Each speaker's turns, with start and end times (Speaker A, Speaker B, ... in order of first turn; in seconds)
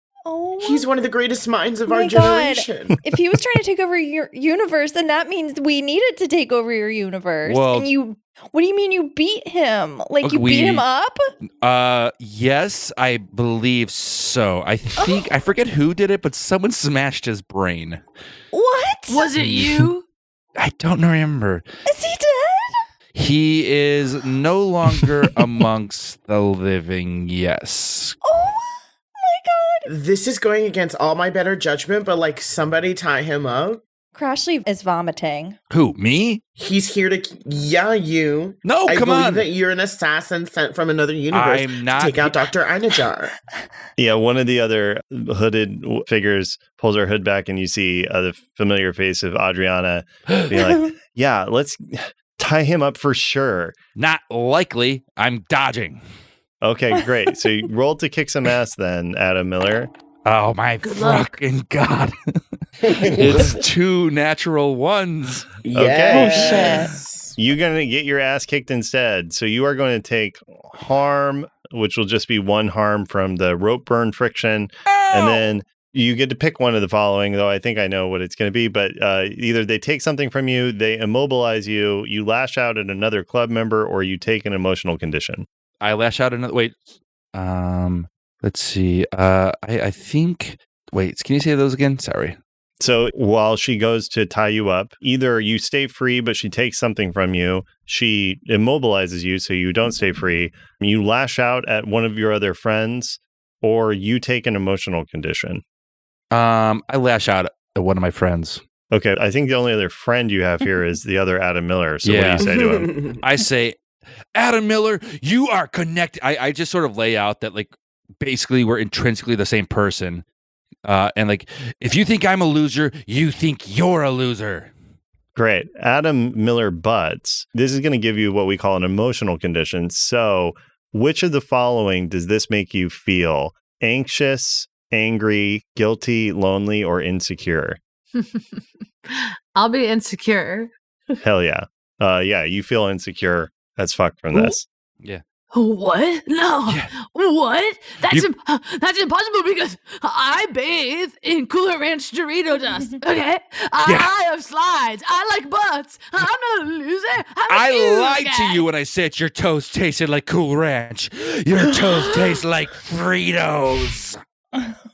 Speaker A: 0.2-0.8, 1.9-11.2, 15.0-15.2, 18.5-19.3, 21.9-22.8, 28.2-29.9, 34.1-35.6, 66.1-66.9
Speaker B: 0.6-2.9, 29.9-33.8, 36.6-43.3, 62.8-63.6, 65.6-67.3, 112.4-113.2
Speaker C: 7.4-7.9, 10.2-10.8, 11.6-18.0, 19.4-19.9, 20.6-21.6, 23.1-28.2, 35.7-36.4, 38.6-39.5, 41.3-42.5, 54.0-56.0, 60.2-65.5, 74.9-75.5, 85.8-92.4, 106.3-108.6, 112.0-112.5, 113.2-113.8, 114.3-120.2, 120.8-124.7, 153.8-154.1, 157.5-164.2
Speaker D: 19.1-20.1, 60.8-61.4, 138.2-140.7, 145.5-158.6
Speaker E: 44.0-53.7, 56.6-59.9, 65.7-66.8, 67.4-85.5, 92.8-105.6, 108.9-112.9, 125.3-137.8, 141.2-144.6